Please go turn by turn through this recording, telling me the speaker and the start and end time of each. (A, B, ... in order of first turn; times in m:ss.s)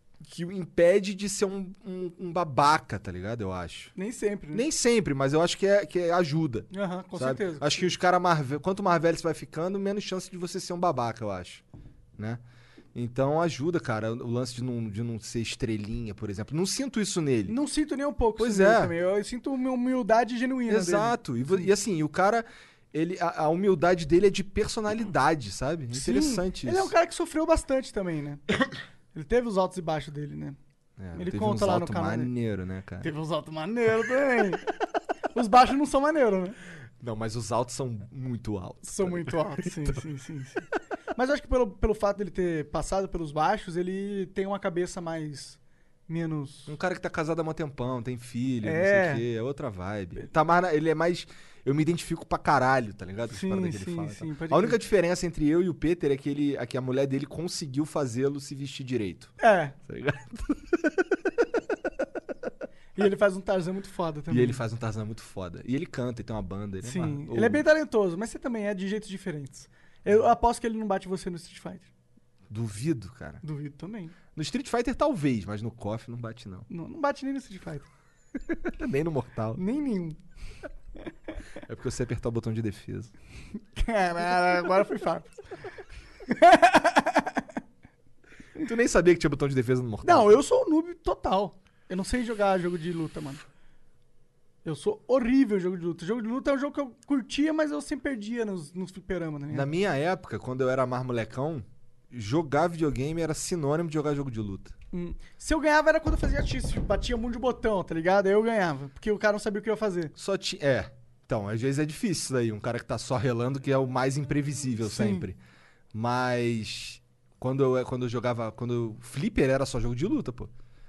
0:00.2-0:03.9 A
0:03.9-0:04.6 B
0:04.5-0:11.6 A
0:06.7-0:07.9 B
0:12.2-0:12.4 A
0:12.9-0:17.6 A
0:17.5-0:21.7 B
0:18.4-0:18.9 A
0:20.7-0:26.9 A
0:25.9-0:28.4 B
0:29.1-0:30.6 B
0:31.0-0:33.1 A
0:31.1-0:32.3 B
0:33.0-0:34.6 B
0:35.3-0:36.6 B
0:37.0-0:40.0 A
0:38.8-0:40.6 B
0:41.1-0:46.7 B
0:46.7-1:01.3 A
0:48.6-0:49.2 B
0:53.3-0:54.8 B
0:59.4-0:59.8 B
1:03.0-1:04.6 B
1:04.3-1:07.6 A
1:06.8-1:11.9 B
1:12.5-1:13.4 A
1:13.4-1:14.1 B
1:14.3-1:16.7 A
1:16.7-1:17.9 B
1:18.4-1:19.6 A
1:19.6-1:20.2 B
1:21.6-1:23.1 A
1:23.8-1:25.4 B
1:26.3-1:27.4 B
1:28.6-1:30.4 A
1:30.0-1:33.4 B
1:34.6-1:39.7 B
1:39.5-1:44.7 A
1:44.9-1:50.1 B
1:50.2-1:55.4 A
1:54.8-1:55.3 B
1:55.9-2:00.5 A